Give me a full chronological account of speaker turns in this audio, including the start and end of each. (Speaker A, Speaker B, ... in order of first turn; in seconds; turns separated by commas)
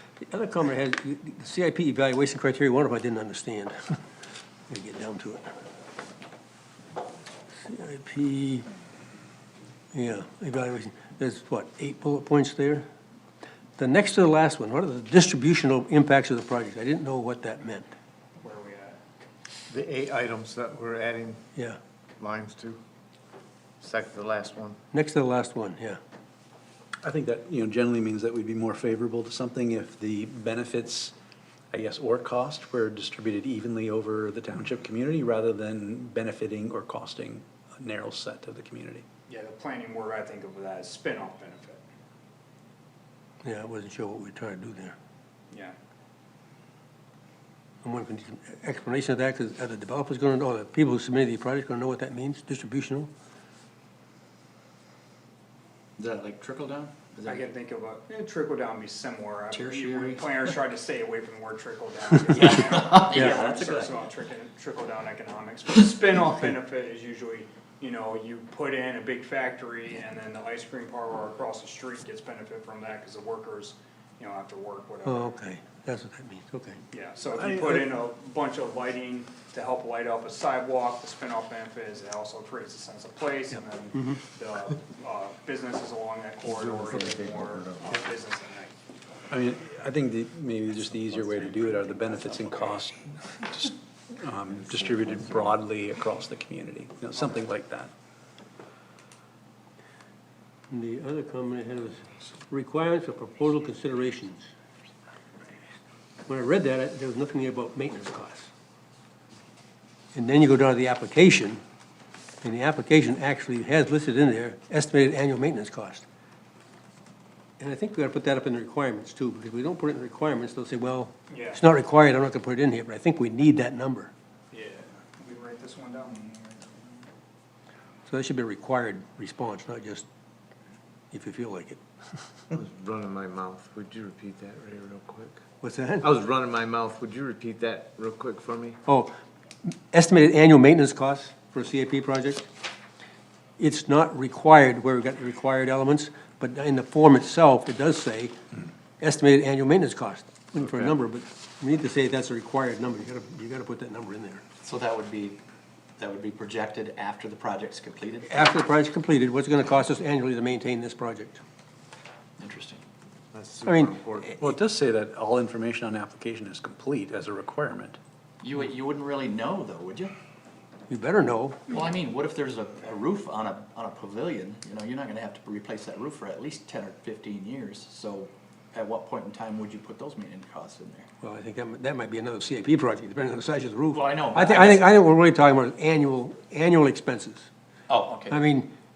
Speaker A: 0.2-4.0, Speaker A: 4.7-5.5, Speaker A: 7.7-8.7, Speaker A: 9.9-12.8, Speaker A: 13.8-17.9, Speaker B: 18.4-19.0, Speaker C: 19.7-21.4, Speaker C: 22.2-22.8, Speaker C: 23.8-24.8, Speaker A: 24.9-26.0, Speaker D: 27.0-31.1, Speaker D: 31.7-39.0, Speaker B: 39.3-41.8, Speaker A: 43.4-45.0, Speaker A: 47.8-53.1, Speaker E: 56.0-57.5, Speaker B: 57.3-75.3, Speaker E: 59.5-60.3, Speaker E: 62.3-64.0, Speaker A: 63.1-63.4, Speaker A: 75.0-76.8, Speaker B: 76.9-88.8, Speaker D: 77.3-77.9, Speaker C: 86.5-87.8, Speaker D: 89.3-97.9, Speaker E: 90.9-92.7, Speaker A: 100.7-104.5, Speaker A: 106.3-108.5, Speaker A: 110.1-111.6, Speaker A: 112.4-116.0, Speaker A: 117.6-124.1, Speaker B: 121.3-121.6, Speaker B: 124.5-127.1, Speaker A: 128.1-130.1, Speaker A: 131.1-131.8, Speaker C: 132.5-135.4, Speaker A: 135.6-136.1, Speaker C: 136.0-138.8, Speaker A: 138.9-139.1, Speaker A: 139.9-142.5, Speaker A: 143.6-148.4, Speaker A: 149.0-154.4, Speaker E: 154.6-155.4, Speaker E: 156.0-158.5, Speaker A: 158.2-161.4, Speaker E: 162.4-162.8, Speaker C: 163.3-164.3, Speaker A: 163.7-164.0, Speaker D: 164.4-168.0, Speaker E: 168.4-170.1, Speaker A: 170.9-171.7, Speaker E: 171.7-181.1, Speaker A: 181.2-187.5, Speaker E: 183.9-184.9, Speaker E: 187.9-188.4, Speaker A: 188.3-188.7